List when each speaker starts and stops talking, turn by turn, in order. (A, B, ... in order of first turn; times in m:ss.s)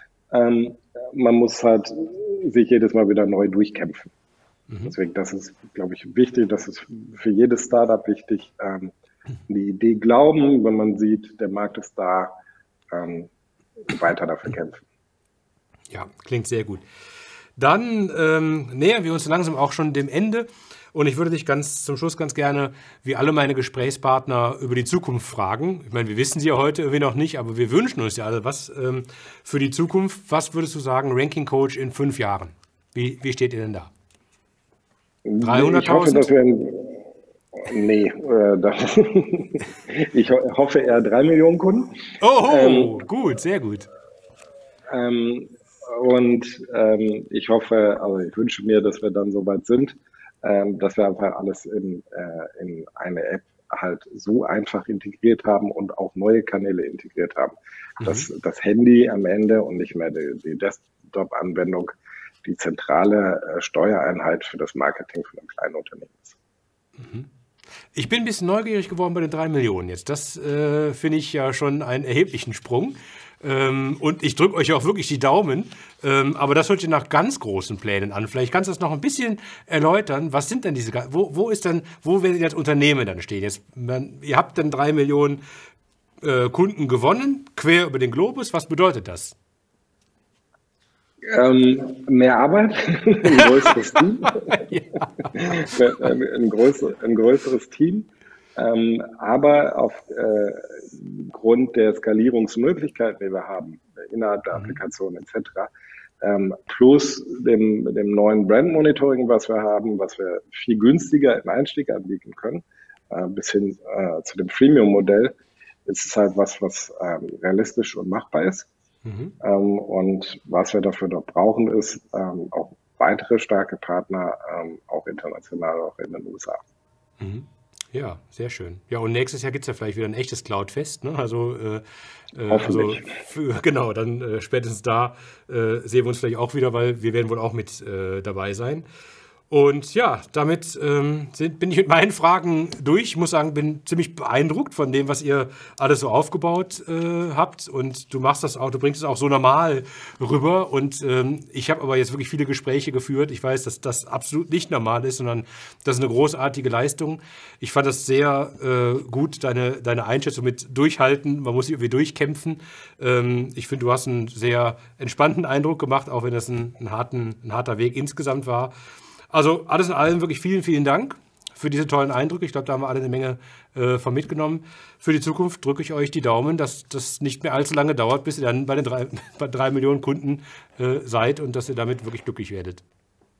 0:00.3-0:04.1 A
0:04.8-0:08.9 A
0:09.5-0:12.3 A
0:12.9-0:14.8 A
0:15.9-0:16.8 B
0:17.6-0:33.9 B
0:35.3-0:43.0 A
0:35.4-0:36.3 B
0:42.2-0:43.9 B
0:44.9-1:06.4 A
0:58.0-0:58.3 B
1:07.0-1:07.3 B
1:07.9-1:25.4 B
1:26.2-1:29.4 B
1:31.3-1:34.7 A
1:33.4-1:33.7 B
1:34.4-1:35.7 B
1:35.3-1:45.7 A
1:46.2-1:58.7 A
1:59.0-1:59.3 B
1:59.4-2:06.6 A
2:07.2-2:18.9 B
2:12.5-2:13.2 A
2:19.5-2:48.7 B
2:49.3-3:02.8 B